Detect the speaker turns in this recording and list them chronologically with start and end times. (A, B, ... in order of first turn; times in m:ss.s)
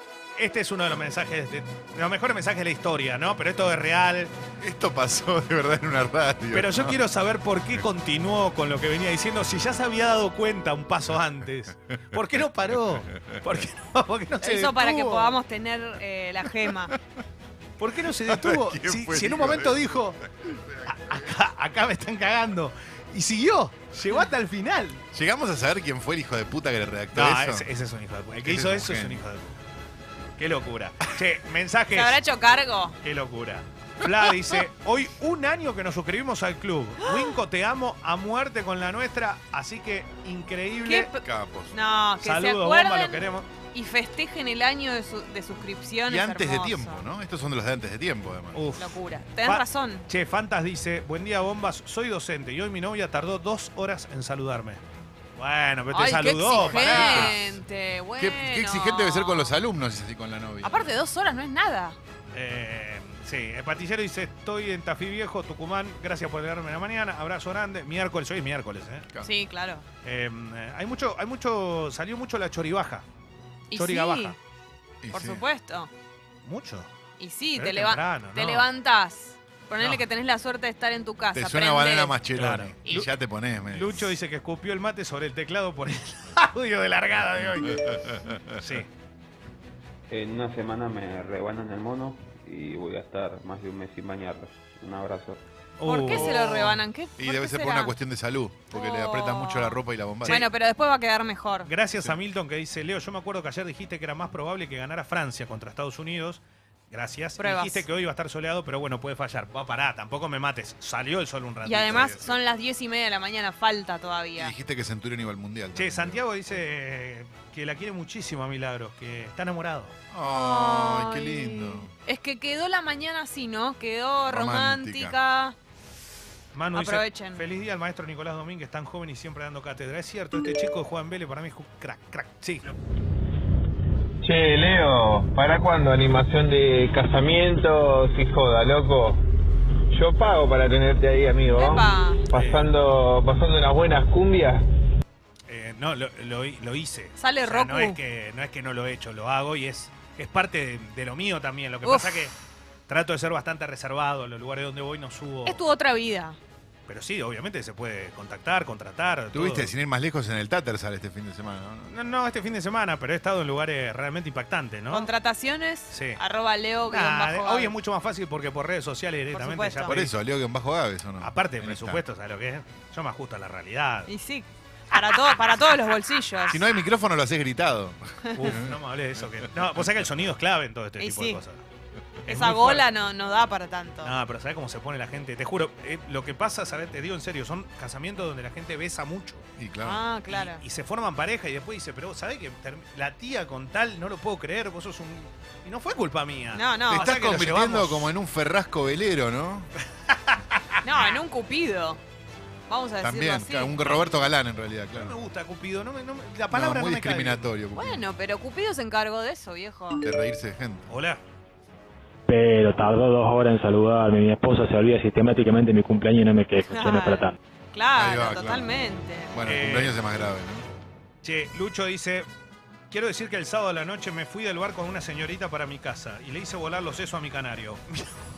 0:00.4-0:04.3 A
0:04.6-0:07.0 B
0:06.5-0:15.4 A
0:12.1-0:13.4 B
0:14.4-0:17.0 C
0:16.7-0:17.0 B
0:17.8-0:20.2 A
0:18.0-0:21.4 B
0:20.9-0:25.0 A
0:25.1-0:27.7 B
0:27.1-0:29.6 A
0:28.4-0:29.2 B
0:30.4-0:32.2 A
0:31.9-0:33.0 C
0:33.0-0:41.1 A
0:37.0-0:37.3 C
0:40.8-0:47.1 C
0:41.2-0:41.8 B
0:42.2-0:43.5 A
0:46.1-0:48.7 B
0:48.5-0:54.8 A
0:48.8-0:50.1 C
0:55.4-0:57.5 A
0:55.9-0:59.6 C
0:56.5-0:57.5 B
0:58.2-1:00.8 B
1:00.6-1:02.0 C
1:02.3-1:09.1 A
1:09.2-1:09.9 C
1:10.0-1:13.0 A
1:13.7-1:14.4 C
1:13.8-1:14.4 A
1:15.0-1:15.4 B
1:15.1-1:15.9 C
1:16.4-1:16.9 A
1:17.2-1:22.2 C
1:17.6-1:18.7 A
1:19.8-1:20.0 A
1:21.3-1:24.1 B
1:22.4-1:23.1 A
1:23.7-1:28.9 A
1:27.5-1:28.8 B
1:30.1-1:35.4 D
1:35.8-1:36.8 A
1:35.8-1:38.0 C
1:36.1-1:40.5 B
1:38.7-1:41.7 C
1:40.2-1:40.5 A
1:41.6-1:52.3 A
1:41.9-1:42.2 B
1:47.4-1:47.9 C
1:51.6-1:54.5 C
1:51.9-1:52.4 B
1:54.4-1:56.2 B
1:55.8-1:59.9 A
2:00.1-2:01.9 B
2:00.3-2:05.6 C
2:04.3-2:05.2 B
2:06.5-2:12.7 A
2:06.7-2:07.4 C
2:14.2-2:19.2 E
2:19.9-2:24.6 E
2:21.5-2:22.3 C
2:22.3-2:22.7 A
2:25.5-2:32.3 A
2:27.2-2:28.0 C
2:31.8-2:32.3 C
2:32.9-2:35.6 A
2:35.5-2:36.4 C
2:36.9-2:39.7 A
2:39.3-2:41.9 B
2:41.9-2:45.1 A
2:44.9-2:47.7 C
2:45.9-2:46.2 A
2:46.9-2:50.1 A
2:49.3-2:50.1 C
2:49.9-2:52.0 B
2:51.2-2:54.1 A
2:54.1-2:56.6 C
2:56.5-2:59.8 B
2:58.3-3:01.6 A
3:01.0-3:01.4 C
3:02.2-3:02.9 A
3:02.3-3:04.2 C
3:04.0-3:09.4 A
3:09.6-3:10.0 B
3:09.8-3:10.6 C
3:10.3-3:18.1 A
3:16.5-3:17.1 C
3:16.9-3:19.7 B
3:20.1-3:21.2 A
3:20.8-3:22.0 C
3:22.7-3:24.0 C
3:23.0-3:25.2 B
3:24.9-3:27.5 A
3:26.5-3:28.0 B
3:27.7-3:30.0 C
3:30.0-3:30.9 B
3:30.9-3:31.2 A
3:32.3-3:37.4 F
3:36.6-3:39.3 C
3:38.0-3:38.7 B
3:39.3-3:40.6 B
3:39.4-3:40.0 A
3:41.2-3:42.3 A
3:42.9-3:48.1 A